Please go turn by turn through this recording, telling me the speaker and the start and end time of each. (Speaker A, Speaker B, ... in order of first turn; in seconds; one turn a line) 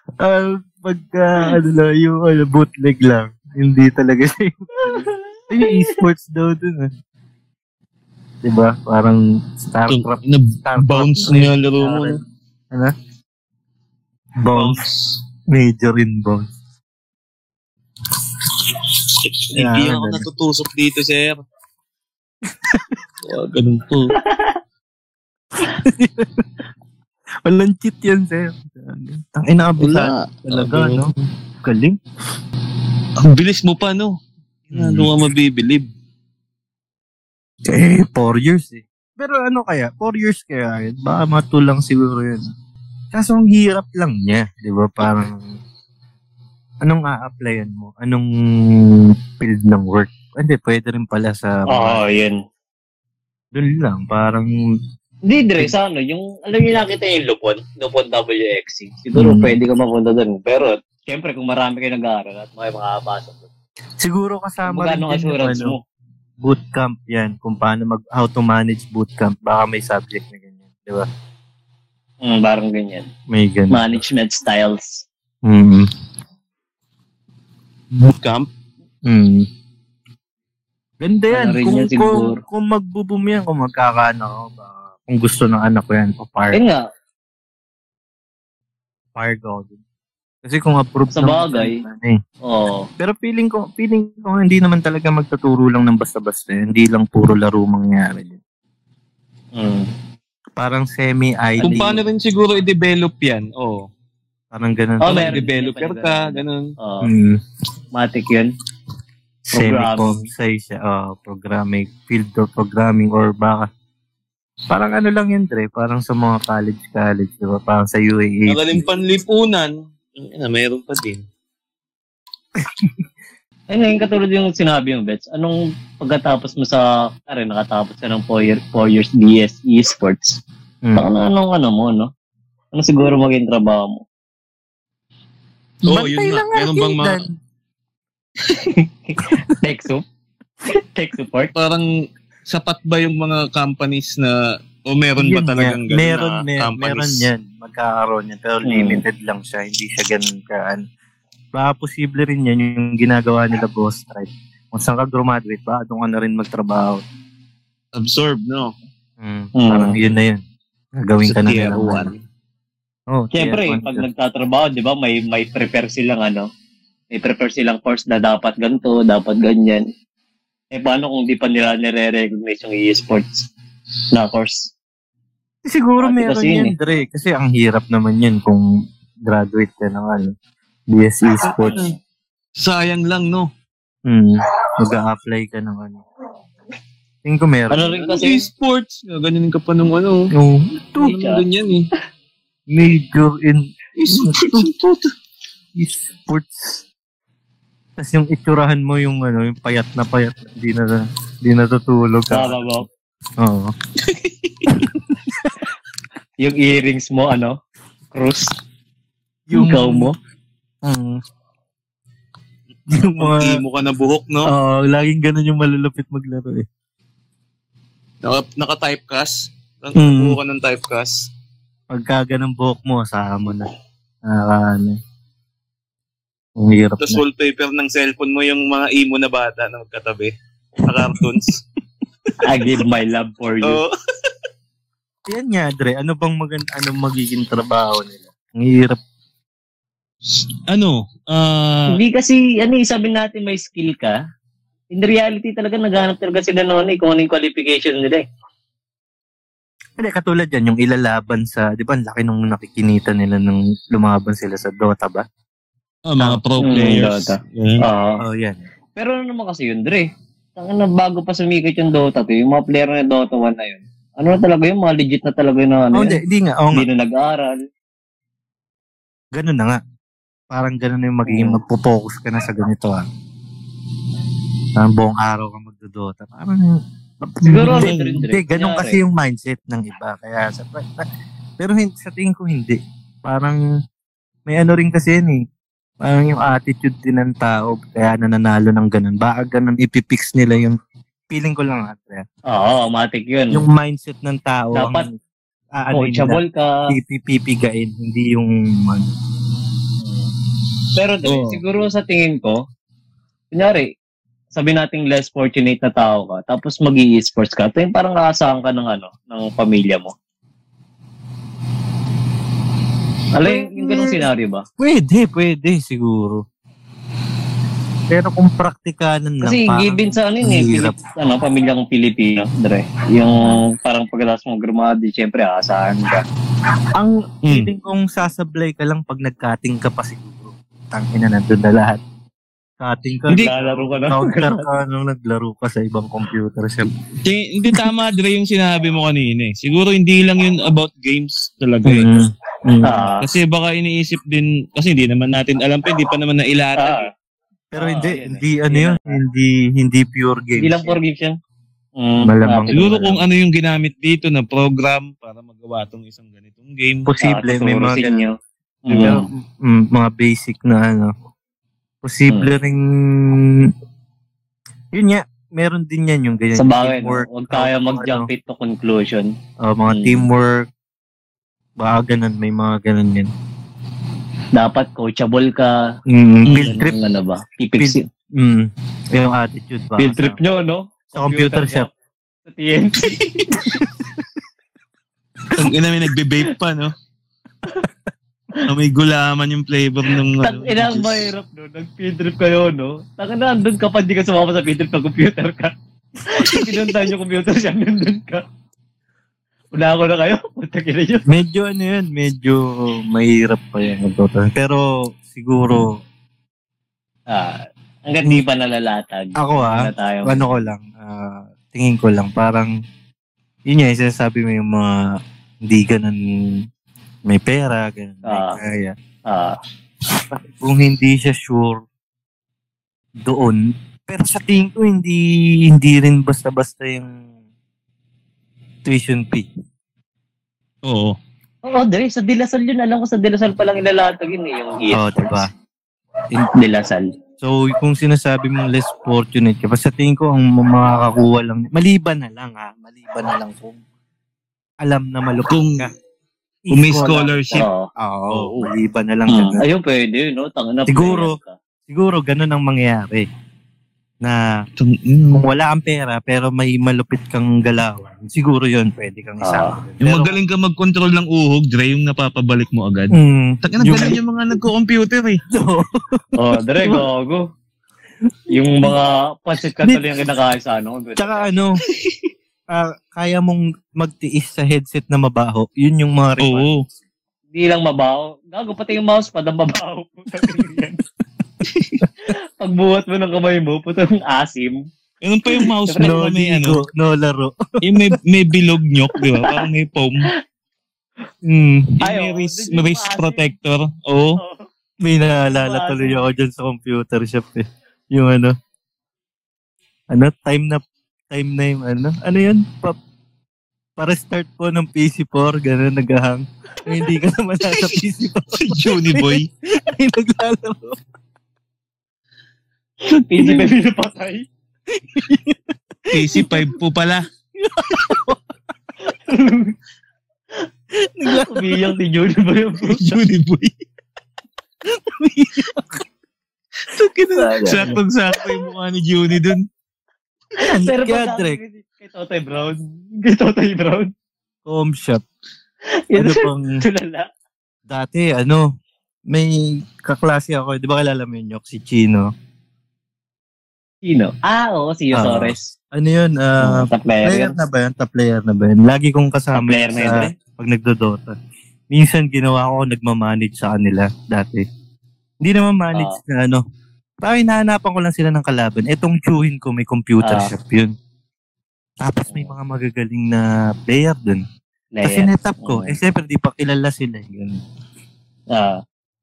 Speaker A: 0.2-6.9
Speaker B: 4.8-6.0
Speaker A: 8.4-12.2
Speaker C: 9.9-12.2
Speaker A: 14.4-14.8
Speaker C: 14.5-15.2
Speaker A: 15.5-16.5
Speaker C: 19.4-21.4
Speaker A: 19.5-20.2
Speaker A: 22.5-22.9
Speaker C: 23.2-24.1
Speaker B: 24.2-24.5
Speaker A: 25.6-26.5
Speaker A: 27.4-31.1
Speaker C: 29.8-31.1
Speaker A: 31.6-32.0
Speaker C: 33.2-34.1
Speaker C: 34.7-35.9
Speaker A: 34.7-35.1
Speaker A: 37.6-42.4
Speaker A: 43.1-45.5
Speaker A: 46.8-52.0
Speaker B: 51.7-52.4
Speaker A: 53.5-54.5
Speaker B: 55.3-63.5
Speaker A: 59.2-59.6
Speaker A: 64.0-65.8
Speaker B: 64.7-65.8
Speaker A: 66.4-71.1
Speaker B: 72.2-73.1
Speaker A: 73.3-73.9
Speaker B: 73.7-75.1
Speaker A: 75.4-75.9
Speaker C: 78.0-78.5
Speaker A: 79.0-79.5
Speaker A: 81.0-86.6
Speaker B: 81.3-82.4
Speaker B: 86.5-86.8
Speaker A: 89.2-89.8
Speaker A: 90.4-92.2
Speaker B: 91.1-91.8
Speaker B: 92.5-92.9
Speaker A: 93.0-98.4
Speaker B: 99.5-99.9
Speaker A: 100.6-102.0
Speaker B: 101.6-101.9
Speaker C: 101.6-103.9
Speaker A: 104.5-105.4
Speaker B: 105.0-107.1
Speaker C: 105.0-106.7
Speaker A: 107.0-107.4
Speaker B: 107.9-108.5
Speaker A: 109.5-113.7
Speaker B: 109.5-110.3
Speaker A: 114.7-118.8
Speaker C: 118.5-121.2
Speaker A: 122.6-122.9
Speaker B: 123.7-130.4
Speaker B: 131.0-132.1
Speaker B: 132.7-134.0
Speaker C: 135.9-137.2
Speaker A: 135.9-137.3
Speaker B: 138.6-140.0
Speaker B: 140.8-141.5
Speaker C: 141.6-141.9
Speaker C: 142.5-147.3
Speaker A: 145.2-150.8
Speaker B: 148.6-149.0
Speaker A: 151.5-157.0
Speaker C: 157.9-158.7
Speaker A: 159.2-160.4
Speaker B: 159.6-160.0
Speaker A: 161.0-162.1
Speaker C: 161.2-162.2
Speaker A: 163.1-164.1
Speaker B: 163.3-166.5
Speaker B: 167.1-169.8
Speaker B: 170.7-173.5
Speaker B: 174.1-174.7
Speaker A: 175.7-178.6
Speaker B: 176.0-176.7
Speaker A: 179.3-180.3
Speaker A: 180.9-181.8
Speaker C: 181.4-181.9
Speaker C: 182.6-183.5
Speaker A: 184.1-186.0
Speaker A: 187.2-187.9
Speaker B: 187.7-188.5
Speaker C: 188.1-190.3
Speaker A: 190.3-191.1
Speaker C: 191.0-191.9
Speaker B: 191.0-191.4
Speaker A: 192.7-194.7
Speaker C: 194.0-195.1
Speaker A: 195.8-196.8
Speaker A: 198.0-202.8
Speaker B: 202.3-202.9
Speaker A: 203.4-203.7
Speaker C: 204.0-204.7
Speaker A: 204.7-205.5
Speaker B: 206.4-207.6
Speaker B: 208.1-208.5
Speaker A: 209.5-210.1
Speaker B: 209.5-210.2
Speaker A: 210.8-211.2
Speaker A: 212.9-213.6
Speaker C: 212.9-214.5
Speaker A: 214.5-216.7
Speaker C: 218.2-221.3
Speaker A: 219.9-220.4
Speaker A: 221.9-223.7
Speaker A: 224.2-225.0
Speaker A: 226.6-227.2
Speaker C: 227.0-231.6
Speaker B: 232.4-233.8
Speaker C: 233.6-233.9
Speaker A: 235.3-239.0
Speaker C: 240.7-242.0
Speaker B: 241.9-244.2
Speaker B: 244.9-248.2
Speaker A: 250.0-255.2
Speaker C: 256.1-257.9
Speaker A: 256.2-256.9
Speaker B: 256.6-258.2
Speaker A: 258.2-258.6
Speaker B: 259.0-266.2
Speaker A: 265.9-266.9
Speaker B: 266.7-267.6
Speaker A: 269.3-269.8
Speaker A: 270.5-273.1
Speaker B: 271.3-271.6
Speaker A: 274.8-281.1
Speaker B: 277.4-279.0
Speaker C: 277.6-278.1
Speaker A: 281.6-283.6
Speaker A: 284.5-285.4
Speaker A: 286.0-290.8
Speaker A: 291.3-292.2
Speaker B: 292.5-293.6
Speaker A: 293.5-295.1
Speaker B: 294.8-295.1
Speaker A: 295.8-299.1
Speaker B: 295.9-296.9
Speaker B: 300.9-302.6
Speaker B: 303.5-303.9
Speaker B: 304.6-310.1
Speaker B: 313.3-314.6
Speaker A: 313.4-314.2
Speaker A: 314.8-316.4
Speaker A: 318.1-321.0
Speaker B: 319.4-326.2
Speaker A: 326.9-332.0
Speaker C: 327.5-327.7
Speaker A: 332.8-336.9
Speaker B: 333.4-334.6
Speaker C: 337.2-342.1
Speaker A: 341.9-343.1
Speaker B: 342.8-343.3
Speaker C: 343.2-347.0
Speaker B: 346.8-347.1
Speaker A: 347.7-351.0
Speaker B: 347.8-349.2
Speaker B: 350.6-351.3
Speaker B: 352.0-352.8
Speaker A: 352.2-353.2
Speaker C: 352.7-357.1
Speaker A: 357.1-358.3
Speaker B: 357.2-358.3
Speaker B: 358.9-359.2
Speaker A: 358.9-361.1
Speaker A: 362.0-363.7
Speaker A: 364.9-368.3
Speaker B: 366.6-369.3
Speaker A: 369.6-370.7
Speaker B: 369.9-370.2
Speaker A: 371.8-373.3
Speaker B: 374.6-375.9
Speaker A: 376.1-377.0
Speaker B: 376.4-378.1
Speaker A: 377.8-380.4
Speaker B: 380.0-381.9
Speaker A: 381.1-381.9
Speaker B: 382.5-383.2
Speaker C: 383.0-383.7
Speaker C: 385.6-386.9
Speaker C: 388.6-391.3
Speaker B: 390.4-395.7
Speaker B: 396.3-398.4
Speaker B: 399.7-401.3
Speaker A: 401.3-406.0
Speaker B: 407.3-410.6
Speaker A: 409.4-412.7
Speaker A: 413.7-415.1
Speaker A: 415.6-416.6
Speaker A: 417.3-418.9
Speaker B: 418.3-418.6
Speaker B: 419.3-419.6
Speaker A: 420.1-421.8
Speaker A: 423.2-427.2
Speaker A: 428.9-429.5
Speaker C: 430.9-431.2
Speaker B: 431.6-435.5
Speaker A: 434.9-435.5
Speaker B: 436.6-437.1
Speaker A: 437.4-443.8
Speaker A: 444.8-445.9
Speaker C: 445.5-445.9
Speaker A: 446.7-449.6
Speaker C: 446.7-447.7
Speaker B: 447.5-447.9
Speaker C: 448.3-448.7
Speaker B: 449.3-451.6
Speaker A: 450.9-453.3
Speaker C: 454.8-455.5
Speaker A: 455.3-460.4
Speaker B: 459.4-459.8
Speaker C: 460.0-465.4
Speaker A: 463.1-464.2
Speaker A: 465.5-466.2
Speaker B: 466.4-467.4
Speaker B: 468.5-471.5
Speaker A: 471.2-471.8
Speaker A: 472.7-476.7
Speaker C: 476.4-476.8
Speaker B: 477.5-481.0
Speaker C: 481.6-482.0
Speaker B: 482.3-484.8
Speaker C: 485.2-486.8
Speaker B: 485.6-486.1
Speaker A: 486.0-488.2
Speaker C: 487.8-490.3
Speaker A: 491.4-491.9
Speaker C: 492.0-494.4
Speaker B: 492.0-493.5
Speaker B: 494.4-494.7
Speaker A: 495.0-498.6
Speaker B: 495.5-496.2
Speaker A: 500.1-503.0
Speaker A: 504.0-511.0
Speaker C: 508.5-509.5
Speaker B: 513.0-514.5
Speaker A: 513.4-513.7
Speaker A: 514.9-516.7
Speaker C: 516.1-517.3
Speaker A: 517.6-518.4
Speaker B: 519.1-519.7
Speaker A: 521.0-522.0
Speaker B: 521.3-523.0
Speaker C: 522.9-523.7
Speaker A: 524.9-526.0
Speaker C: 526.9-529.6
Speaker A: 527.4-528.0
Speaker B: 527.5-528.0
Speaker B: 530.6-534.1
Speaker A: 530.6-531.6
Speaker A: 534.7-535.2
Speaker B: 536.1-537.3
Speaker A: 536.2-536.8
Speaker A: 537.9-538.7
Speaker A: 539.3-542.3
Speaker B: 544.1-545.7
Speaker A: 545.1-551.4
Speaker B: 546.6-547.6
Speaker B: 549.5-550.3
Speaker A: 551.9-554.6
Speaker A: 555.4-556.6
Speaker B: 555.9-556.2
Speaker A: 557.2-560.9
Speaker B: 560.2-560.5
Speaker A: 562.0-564.4
Speaker B: 565.0-566.0
Speaker A: 565.0-567.6
Speaker B: 568.5-568.8